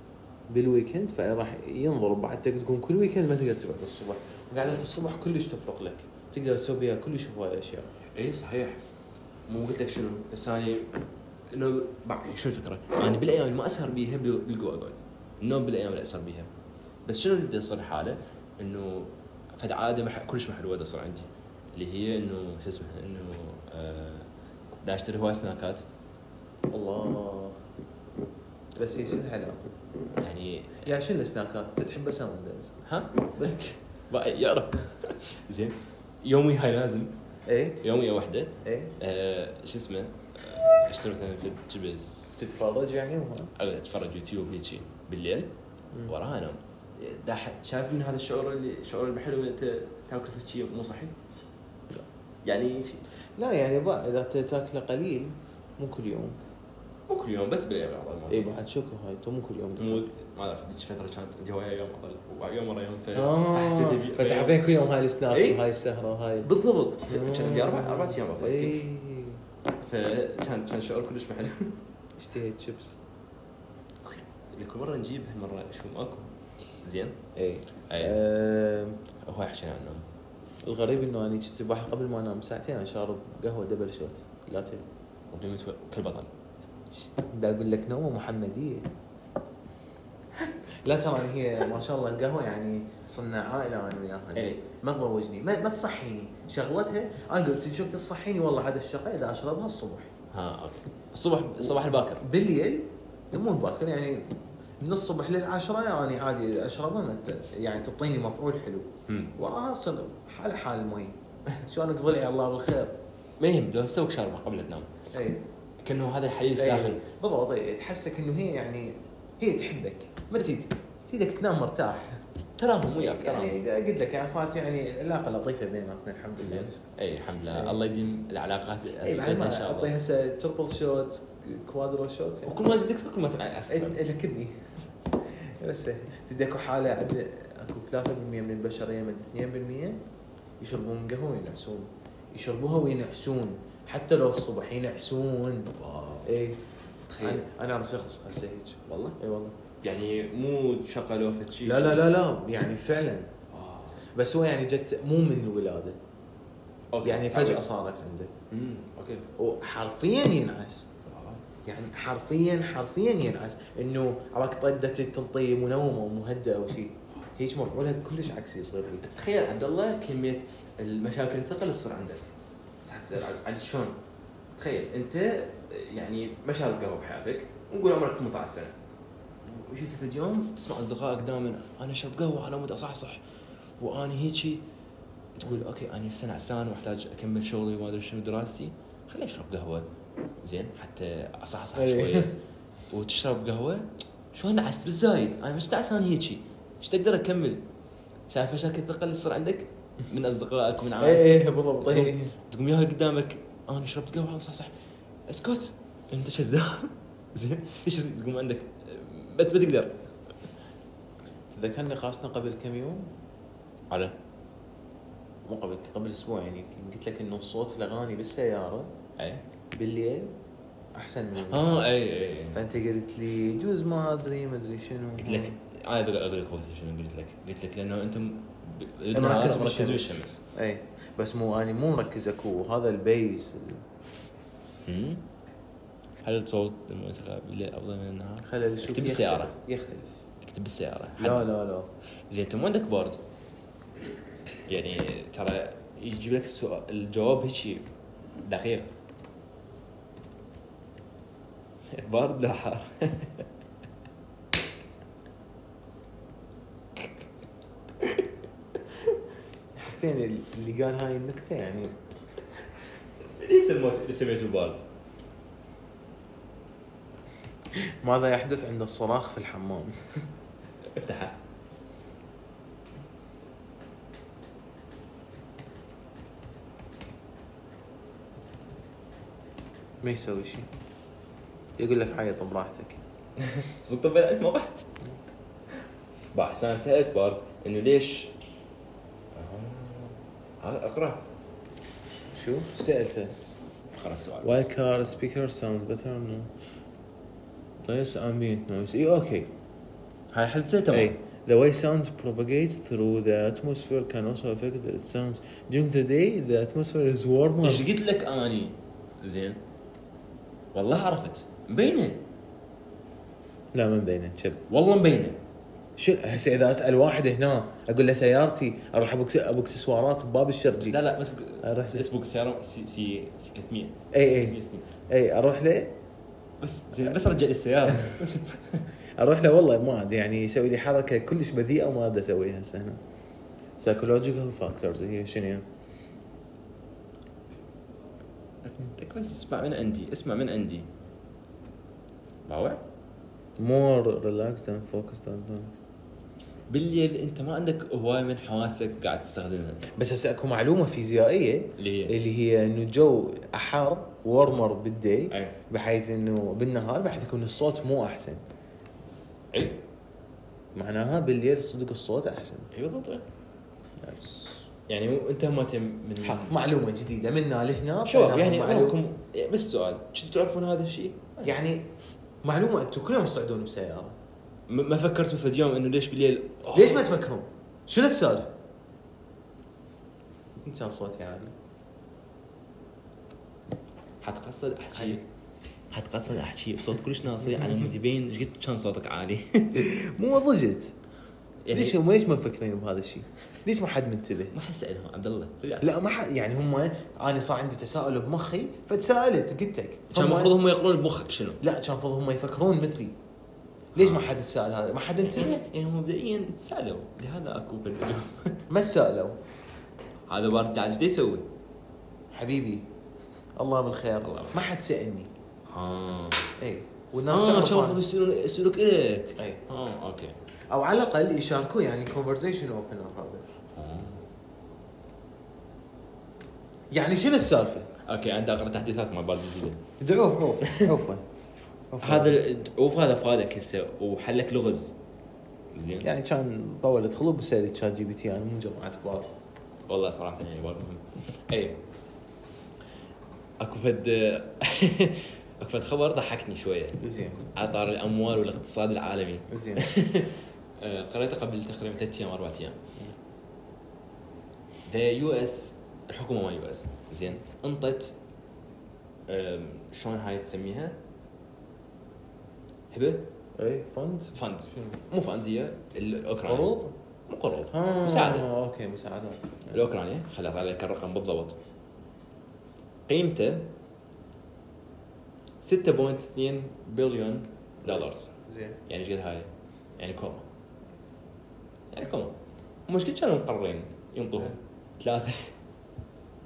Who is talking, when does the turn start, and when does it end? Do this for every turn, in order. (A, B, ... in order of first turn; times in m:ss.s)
0:00.5-0:07.9 A
0:08.1-0:08.8 B
0:09.5-0:16.5 B
0:17.0-0:24.3 B
0:24.8-0:25.8 B
0:26.7-0:27.6 A
0:28.8-0:29.6 A
0:30.2-0:30.9 B
0:30.8-0:32.8 A
0:32.8-0:37.2 B
0:33.4-0:33.6 A
0:37.4-0:37.8 A
0:37.8-0:42.4 B
0:38.6-0:38.9 A
0:42.4-0:43.5 A
0:43.6-0:45.5 B
0:46.1-0:51.1 B
0:52.4-0:53.0 B
0:53.4-0:56.4 A
0:57.1-0:58.6 B
0:58.3-1:00.1 A
0:59.8-1:04.6 B
1:03.1-1:06.5 A
1:05.3-1:05.6 B
1:06.4-1:08.7 B
1:07.1-1:09.4 A
1:09.8-1:11.8 B
1:12.2-1:13.0 A
1:14.0-1:16.3 B
1:16.8-1:17.2 B
1:17.4-1:19.0 A
1:17.9-1:18.2 B
1:19.2-1:20.0 B
1:20.6-1:24.8 A
1:25.3-1:26.3 B
1:26.9-1:28.9 A
1:30.8-1:40.1 A
1:34.3-1:34.6 B
1:40.3-1:42.2 B
1:41.6-1:52.9 A
1:49.1-1:49.3 B
1:53.4-1:54.9 B
1:55.1-1:55.4 A
1:55.8-1:57.0 B
1:56.6-2:02.2 A
2:02.6-2:03.6 B
2:03.0-2:06.8 A
2:06.4-2:09.9 B
2:07.5-2:07.8 A
2:09.0-2:12.6 A
2:12.4-2:14.0 B
2:13.7-2:14.7 A
2:15.2-2:20.0 A
2:20.6-2:25.7 A
2:25.8-2:26.3 B
2:26.2-2:26.6 A
2:27.1-2:27.4 B
2:27.2-2:29.5 A
2:28.9-2:29.2 B
2:29.8-2:32.1 B
2:31.6-2:33.3 A
2:33.5-2:34.0 B
2:34.1-2:36.0 A
2:36.9-2:37.6 B
2:37.0-2:38.3 A
2:38.5-2:39.3 B
2:39.4-2:40.9 A
2:41.0-2:41.4 B
2:41.6-2:49.0 A
2:49.0-2:53.9 B
2:54.5-2:58.8 B
2:59.4-3:03.2 B
3:03.8-3:04.6 B
3:05.3-3:09.8 B
3:10.4-3:12.3 B
3:11.7-3:12.3 A
3:12.9-3:17.6 B
3:18.3-3:24.7 B
3:21.0-3:22.3 A
3:25.3-3:30.0 B
3:31.5-3:33.1 A
3:33.9-3:34.1 B
3:35.4-3:38.9 A
3:39.2-3:39.4 B
3:39.7-3:40.3 A
3:40.9-3:41.8 A
3:41.4-3:42.6 B
3:42.5-3:45.5 A
3:45.2-3:50.4 B
3:49.1-3:53.8 A
3:54.8-3:55.2 B
3:56.2-3:59.5 B
3:58.4-4:00.2 A
4:00.4-4:01.5 B
4:01.2-4:01.9 A
4:02.3-4:03.2 B
4:04.7-4:07.9 B
4:08.4-4:08.9 B
4:11.9-4:13.5 B
4:19.7-4:21.9 A
4:23.2-4:24.8 B
4:27.7-4:30.0 A
4:30.8-4:31.4 B
4:40.0-4:40.7 A
4:41.8-4:43.0 A
4:43.4-4:44.8 B
4:46.3-4:48.3 B
4:49.3-4:51.2 B
4:52.3-4:53.4 A
4:53.9-4:54.8 B
4:54.4-4:56.5 A
4:57.8-4:59.5 A
5:00.3-5:01.1 B
5:00.9-5:07.9 A
5:07.6-5:09.6 B
5:10.7-5:12.2 B
5:13.7-5:14.6 A
5:14.7-5:15.4 B
5:16.0-5:21.0 A
5:20.7-5:24.8 B
5:21.6-5:22.0 A
5:24.1-5:25.9 A
5:26.6-5:28.9 B
5:27.0-5:28.2 A
5:29.2-5:33.0 A
5:33.8-5:35.6 A
5:38.6-5:40.9 B
5:42.5-5:42.8 B
5:43.6-5:45.8 A
5:46.7-5:49.8 B
5:49.9-5:58.4 A
5:51.8-5:52.2 B
5:55.3-5:55.6 B
5:59.5-5:59.8 B
6:00.7-6:02.7 A
6:02.7-6:03.2 B
6:04.0-6:04.7 A
6:04.9-6:06.6 B
6:06.2-6:09.0 A
6:08.0-6:11.5 B
6:11.4-6:11.9 A
6:12.4-6:14.2 A
6:14.7-6:17.1 B
6:16.7-6:18.5 A
6:20.6-6:21.5 A
6:24.2-6:25.2 B
6:25.9-6:29.9 B
6:27.4-6:27.9 A
6:29.7-6:30.9 A
6:31.6-6:32.0 B
6:31.7-6:34.5 A
6:34.5-6:36.0 B
6:35.8-6:40.6 A
6:40.1-6:41.6 B
6:41.6-6:43.1 A
6:43.9-6:45.6 A
6:44.0-6:44.3 B
6:45.2-6:48.6 B
6:48.7-6:49.4 A
6:50.3-6:51.5 B
6:52.3-6:52.8 A
6:53.6-6:55.3 A
6:54.2-6:54.7 B
6:55.7-6:56.5 B
6:56.6-6:58.0 A
6:57.3-7:00.4 B
7:00.7-7:03.4 A
7:03.7-7:04.2 B
7:06.9-7:07.9 A
7:08.0-7:09.8 B
7:10.0-7:11.2 A
7:11.9-7:12.4 A
7:12.0-7:15.0 B
7:15.7-7:16.1 B
7:16.0-7:19.3 A
7:19.9-7:21.8 B
7:23.6-7:27.0 B
7:27.0-7:27.5 A
7:27.5-7:32.8 B
7:29.5-7:29.9 A
7:34.8-7:38.2 B
7:39.3-7:41.0 B
7:42.9-7:43.3 B
7:43.6-7:45.0 A
7:44.3-7:46.8 B
7:46.4-7:46.9 A
7:47.3-7:48.5 B
7:47.7-7:49.8 A
7:49.7-7:51.6 B
7:53.1-7:53.7 B
7:55.6-7:58.3 B
7:57.8-7:58.8 A
7:58.8-8:00.5 B
8:01.9-8:02.3 B
8:02.9-8:05.5 B